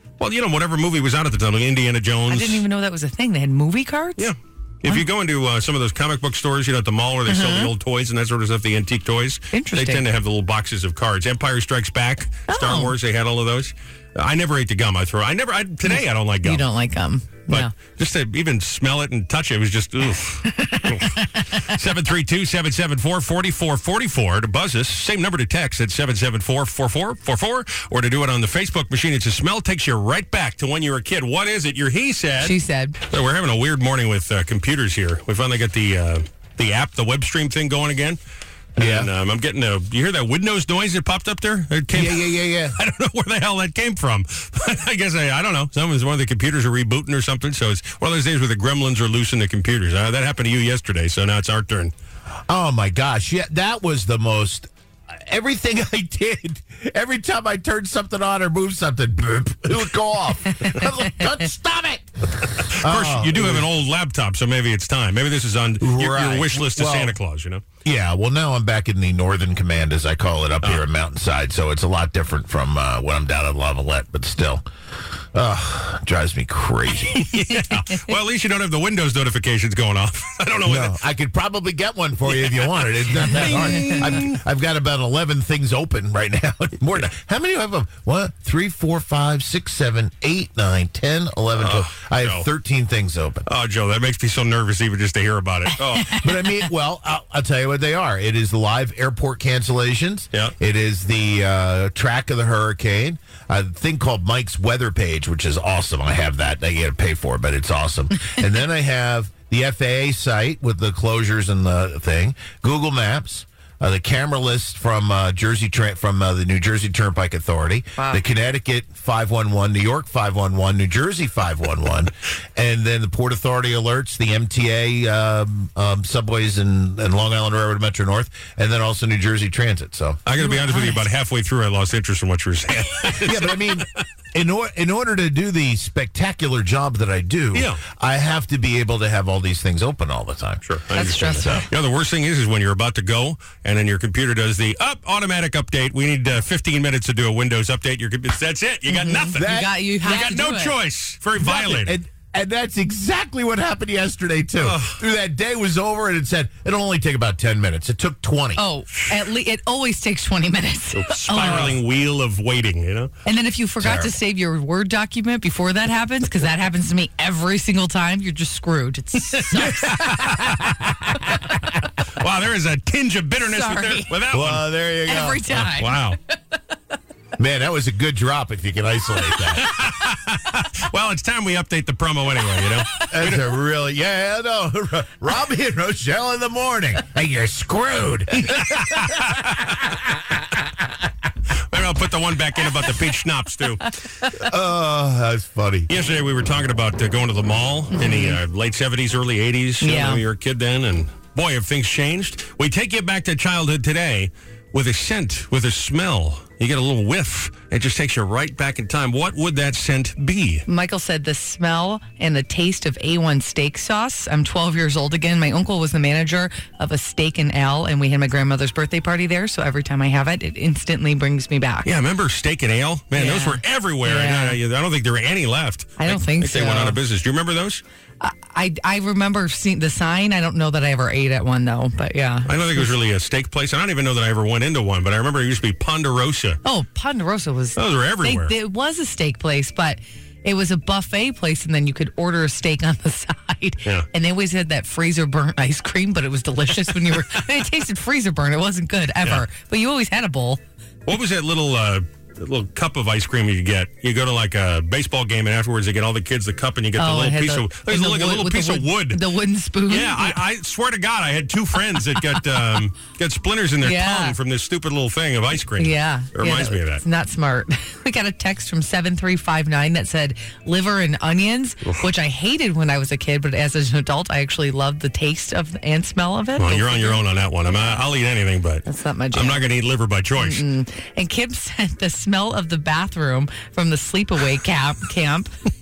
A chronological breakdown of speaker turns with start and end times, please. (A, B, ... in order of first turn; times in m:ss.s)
0:00.2-0:02.6 A
0:02.3-0:04.3 B
0:04.2-0:16.7 A
0:07.3-0:07.7 B
0:09.5-0:10.1 B
0:12.5-0:13.0 B
0:15.9-0:17.7 B
0:17.5-0:32.6 A
0:20.4-0:21.7 B
0:32.4-0:33.0 B
0:33.1-0:38.2 A
0:38.8-0:51.9 A
0:38.8-0:39.1 C
0:41.9-0:42.8 C
0:52.5-1:03.7 C
1:02.8-1:07.6 A
1:05.8-1:07.2 C
1:07.8-1:14.6 C
1:15.3-1:17.4 C
1:17.1-1:20.9 A
1:20.6-1:33.5 C
1:22.2-1:24.4 A
1:23.5-1:24.2 B
1:31.6-1:32.5 A
1:33.4-1:36.2 A
1:36.0-2:10.2 C
1:58.0-1:58.2 B
2:10.3-2:14.0 A
2:10.4-2:11.1 B
2:13.2-2:21.7 C
2:17.5-2:17.8 A
2:20.6-2:29.5 A
2:21.0-2:21.7 B
2:28.9-2:30.8 B
2:29.3-2:29.7 C
2:30.0-2:32.0 A
2:31.4-2:38.6 C
2:34.6-2:35.0 A
2:38.6-2:41.8 B
2:38.9-2:39.2 A
2:40.9-2:43.1 A
2:41.4-2:41.8 C
2:43.2-2:50.2 B
2:43.8-2:44.1 C
2:49.2-2:50.5 A
2:49.5-2:51.8 C
2:52.1-2:54.6 A
2:53.4-2:54.2 B
2:54.3-2:55.4 C
2:55.1-2:56.6 B
2:55.5-2:56.2 A
2:57.4-2:59.7 C
2:59.6-3:03.4 A
3:02.6-3:03.0 B
3:03.0-3:10.7 C
3:08.5-3:09.4 A
3:11.7-3:14.0 A
3:14.3-3:15.9 C
3:15.9-3:30.6 A
3:17.9-3:18.4 B
3:19.8-3:20.2 B
3:30.7-3:41.9 B
3:41.8-3:47.8 A
3:43.1-3:44.6 B
3:46.0-3:47.0 B
3:48.2-3:52.9 B
3:52.4-3:56.6 A
3:56.6-4:10.6 B
3:57.7-3:58.5 A
4:11.0-4:19.2 A
4:17.0-4:20.4 B
4:19.9-4:27.0 A
4:22.0-4:22.4 B
4:23.8-4:24.4 B
4:25.8-4:37.2 B
4:36.6-4:40.7 A
4:38.9-4:39.7 B
4:40.4-4:45.5 B